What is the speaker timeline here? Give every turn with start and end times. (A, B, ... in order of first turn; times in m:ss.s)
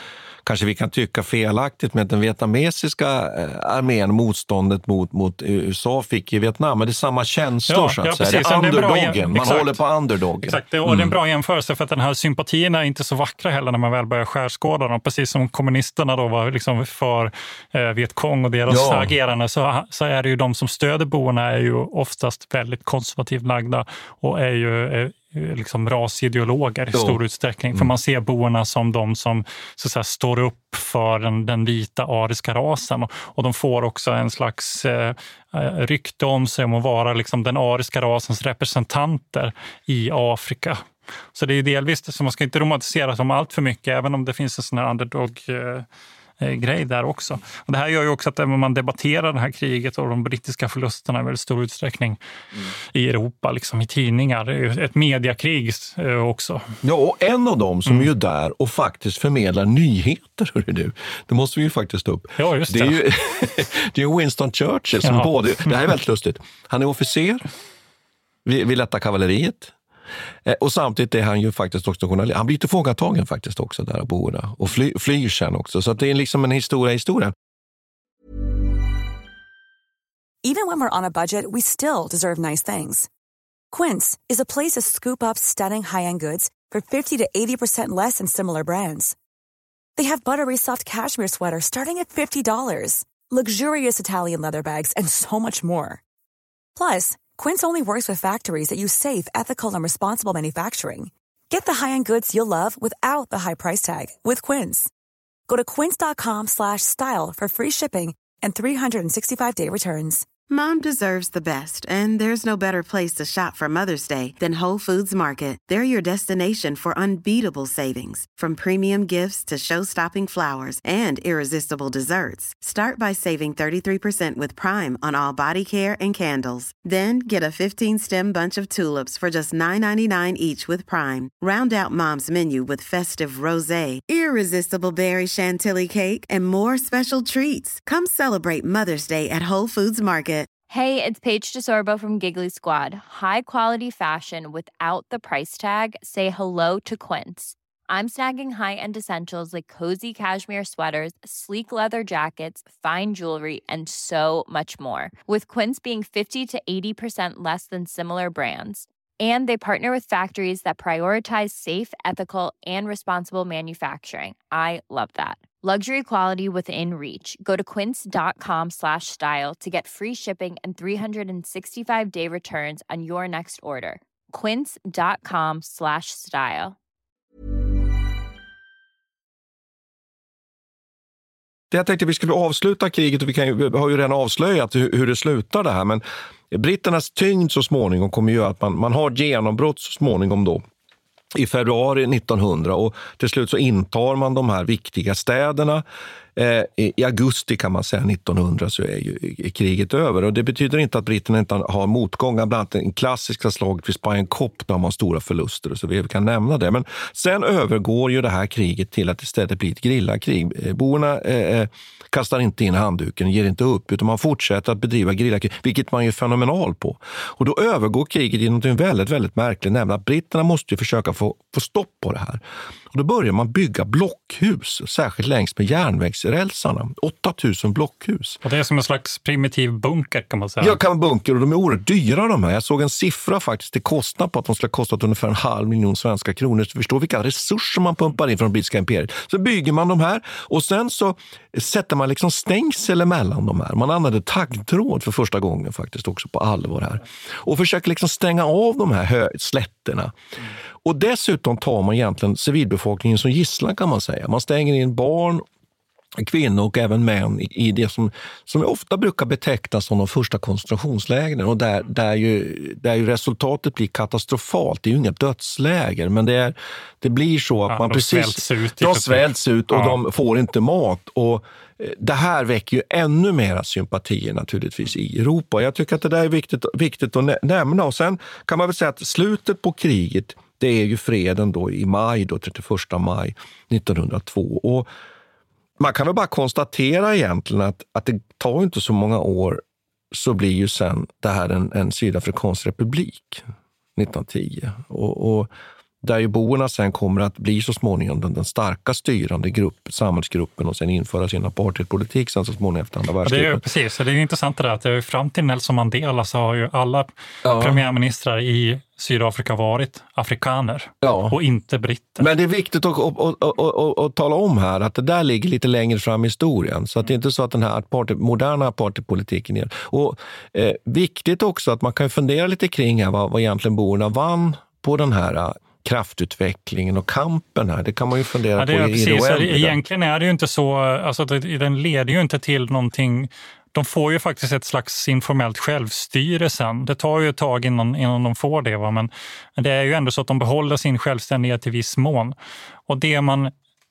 0:00.4-0:11.1 A
0:07.7-0:09.8 B
0:10.4-0:45.8 B
0:18.7-0:19.1 A
0:26.9-0:27.2 A
0:46.4-0:56.6 B
0:56.8-1:07.5 A
1:02.4-1:03.0 B
1:05.0-1:05.3 B
1:08.4-1:09.7 A
1:10.4-1:17.3 A
1:20.4-1:23.1 C
1:23.7-1:29.1 C
1:30.0-1:36.0 C
1:36.8-1:44.9 C
1:45.5-1:50.3 C
1:50.5-2:20.5 D
2:20.7-2:56.8 E
3:01.7-3:10.6 A
3:11.3-3:15.8 A
3:16.4-3:48.4 A
3:48.4-3:50.8 B
3:50.6-4:10.1 A
4:10.8-4:15.4 A
4:16.2-4:44.9 A
4:27.7-4:30.0 B
4:45.8-4:53.4 A
4:54.0-5:03.6 A
5:03.2-5:12.3 B
5:07.4-5:07.8 A
5:11.0-5:11.4 A
5:12.2-5:29.8 A
5:28.6-5:42.3 B
5:42.9-5:43.5 B